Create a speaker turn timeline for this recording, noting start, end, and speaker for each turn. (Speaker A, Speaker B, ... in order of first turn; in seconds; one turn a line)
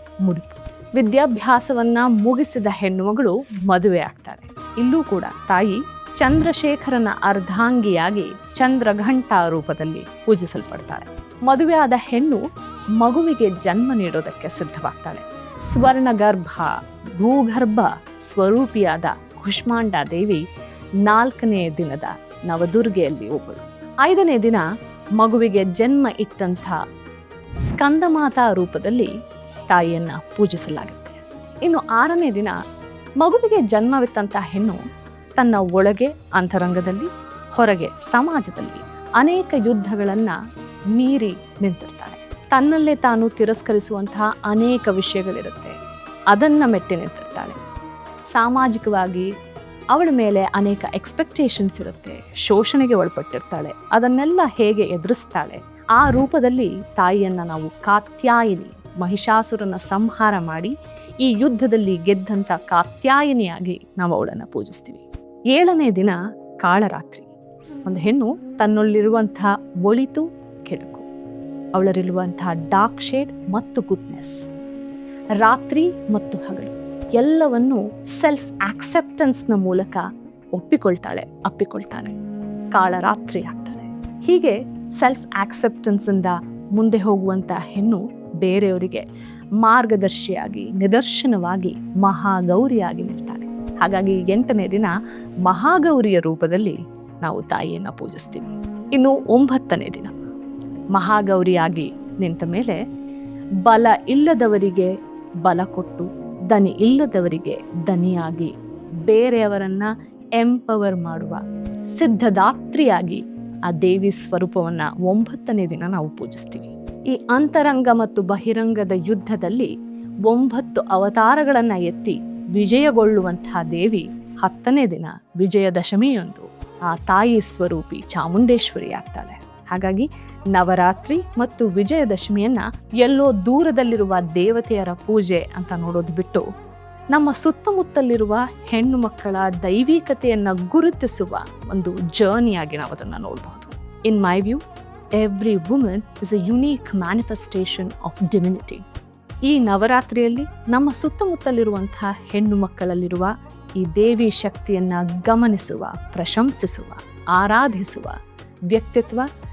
Speaker A: 0.2-12.4
Speaker A: 13.0-20.4
Speaker A: 21.0-24.6
Speaker A: 25.2-26.8
Speaker A: 27.6-29.1
Speaker A: 29.7-32.5
Speaker A: 33.2-34.8
Speaker A: 35.4-40.4
Speaker A: 40.9-45.8
Speaker A: 46.3-47.6
Speaker A: 48.3-49.3
Speaker A: 49.9-67.3
Speaker A: 67.8-71.0
Speaker A: 71.7-74.4
Speaker A: 75.4-82.1
Speaker A: 82.7-89.0
Speaker A: 89.6-100.1
Speaker A: 100.9-102.8
Speaker A: 103.7-104.9
Speaker A: 105.4-108.5
Speaker A: 109.1-111.4
Speaker A: 111.9-119.7
Speaker A: 120.3-136.4
Speaker A: 137.1-144.6
Speaker A: 145.2-148.8
Speaker A: 149.5-158.2
Speaker A: 158.7-159.3